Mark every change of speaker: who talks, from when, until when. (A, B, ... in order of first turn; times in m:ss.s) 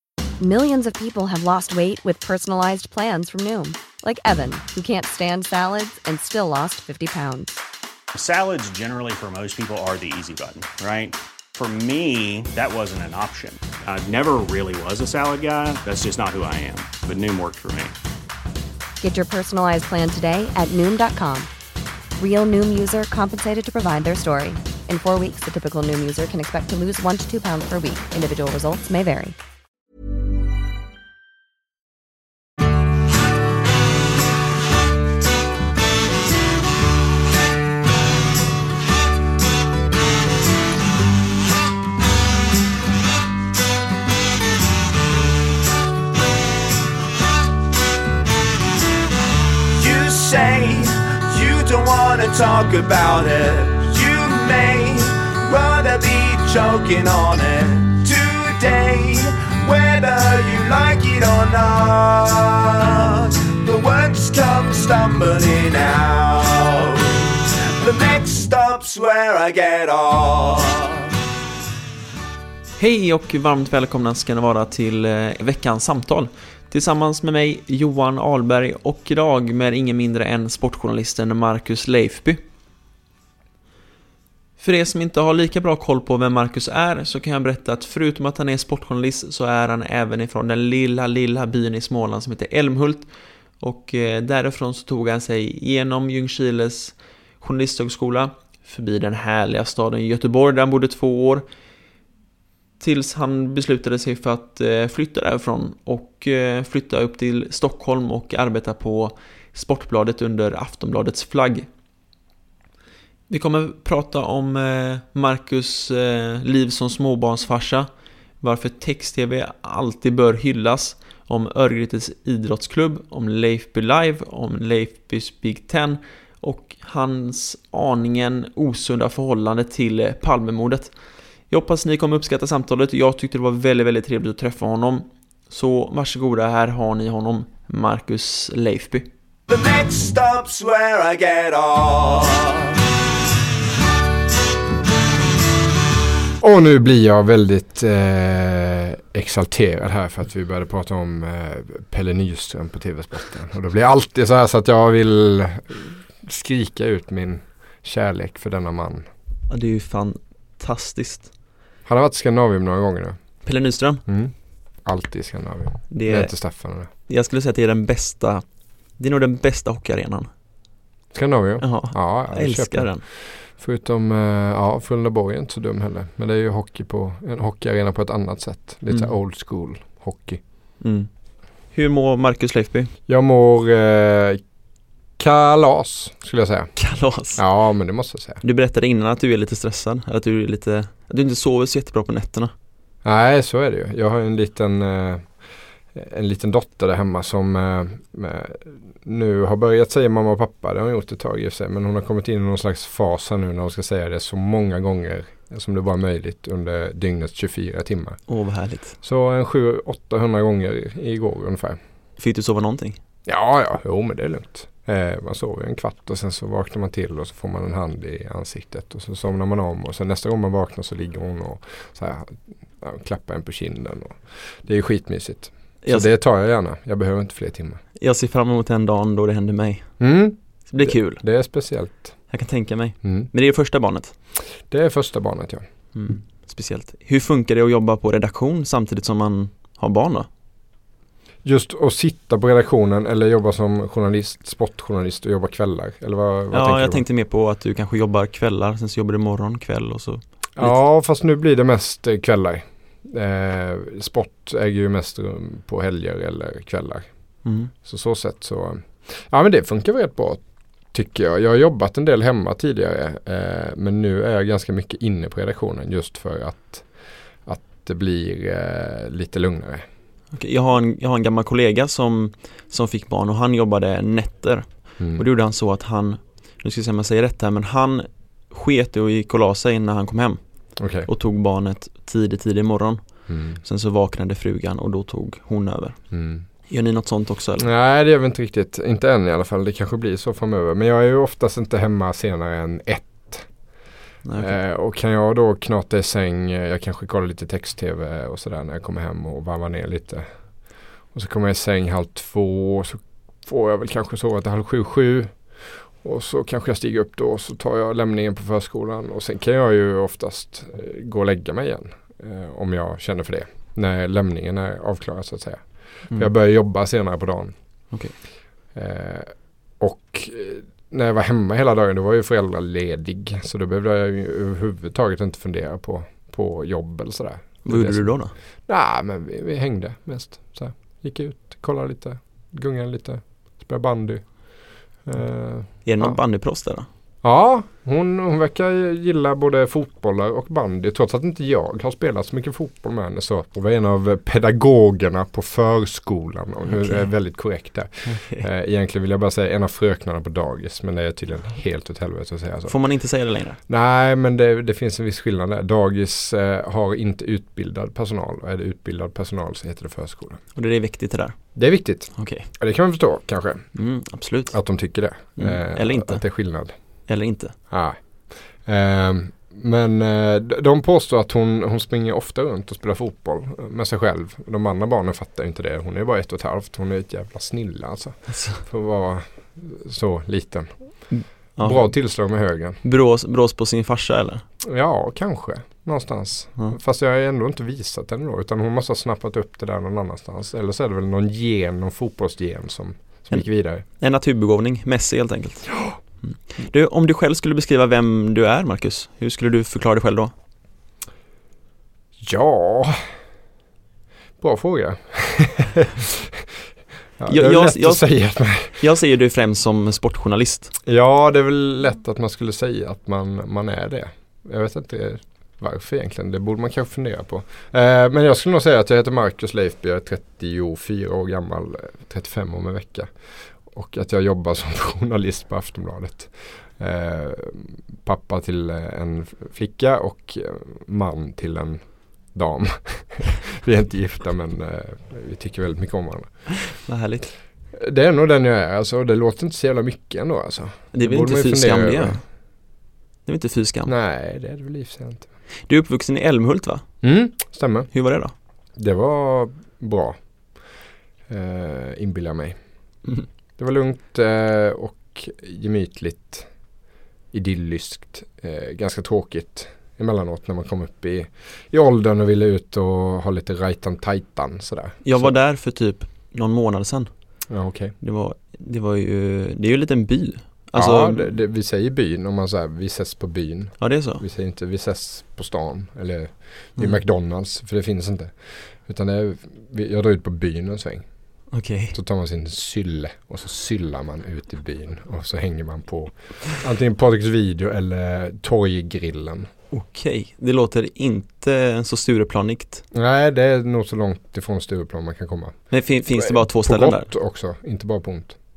0:00.4-0:07.6 A
0:08.1-0:17.9 B
0:19.0-0:21.5 A
0:22.2-0:29.3 A
0:49.8-1:07.1 C
1:07.8-1:11.1 C
1:12.8-1:22.4 D
1:24.6-1:41.4 D
1:42.8-1:51.7 D
1:53.3-1:57.9 D
1:58.4-2:10.9 D
2:11.5-2:19.1 D
2:19.5-2:22.7 C
2:26.4-2:39.1 E
2:39.5-2:41.3 D
2:41.8-2:43.2 E
2:43.4-2:44.0 D
2:44.0-2:46.9 E
2:45.9-2:46.4 D
2:47.0-2:50.3 D
2:51.1-3:00.4 E
2:51.6-2:53.0 D
3:00.8-3:01.1 D
3:01.7-3:02.9 D
3:03.1-3:04.4 E
3:05.2-3:06.8 E
3:06.8-3:07.4 D
3:07.3-3:08.4 E
3:08.4-3:12.5 D
3:13.0-3:15.4 E
3:15.9-3:28.2 E
3:28.3-3:29.0 D
3:29.0-3:31.8 E
3:32.2-3:33.0 D
3:33.2-3:47.8 E
3:45.8-3:46.1 D
3:48.0-3:50.0 D
3:50.0-3:52.2 E
3:50.7-3:51.2 D
3:52.3-3:54.1 D
3:53.0-3:53.3 E
3:54.6-3:55.6 E
3:55.9-4:00.3 D
4:01.4-4:07.0 E
4:06.5-4:10.8 D
4:10.6-4:17.1 E
4:17.4-4:17.7 D
4:17.8-4:29.8 E
4:30.3-4:40.4 D
4:35.0-4:35.2 E
4:40.8-4:41.1 E
4:41.0-4:46.0 D
4:43.3-4:43.6 E
4:46.1-4:46.5 E
4:46.6-4:47.7 D
4:47.6-4:53.5 E
4:54.2-4:54.5 D
4:54.4-5:17.6 E
5:18.7-5:36.2 E
5:27.6-5:28.3 D
5:35.8-5:36.9 D
5:37.2-5:52.8 E
5:46.6-5:47.1 D
5:48.0-5:48.4 D
5:52.7-5:53.6 D
5:53.7-6:00.4 E
6:00.5-6:01.6 D
6:01.6-6:03.7 E
6:02.2-6:02.5 D
6:03.7-6:04.6 D
6:04.5-6:06.7 E
6:05.3-6:06.2 D
6:07.1-6:07.6 D
6:07.7-6:22.8 E
6:18.3-6:18.6 D
6:21.1-6:22.0 D
6:22.8-6:24.4 D
6:24.6-6:33.8 E
6:33.3-6:40.3 D
6:42.2-6:43.1 E
6:44.4-6:46.5 E
6:47.2-6:48.8 E
6:47.3-6:50.7 D
6:50.8-7:16.8 E
7:16.7-7:17.3 D
7:17.7-7:22.2 E
7:20.9-7:22.3 D
7:23.2-7:23.9 D
7:23.8-7:25.3 E
7:25.7-7:26.9 D
7:27.0-7:27.9 E
7:27.9-7:28.3 D
7:28.8-7:30.7 E
7:31.3-7:32.6 E
7:33.6-7:36.5 E
7:37.3-7:45.3 E
7:45.0-7:47.1 D
7:47.5-7:47.9 E
7:48.0-7:51.4 D
7:50.7-8:01.1 E
7:53.8-7:54.2 D
8:01.5-8:01.9 D
8:01.9-8:09.5 E
8:09.7-8:12.8 D
8:12.9-8:18.4 E
8:15.7-8:17.1 D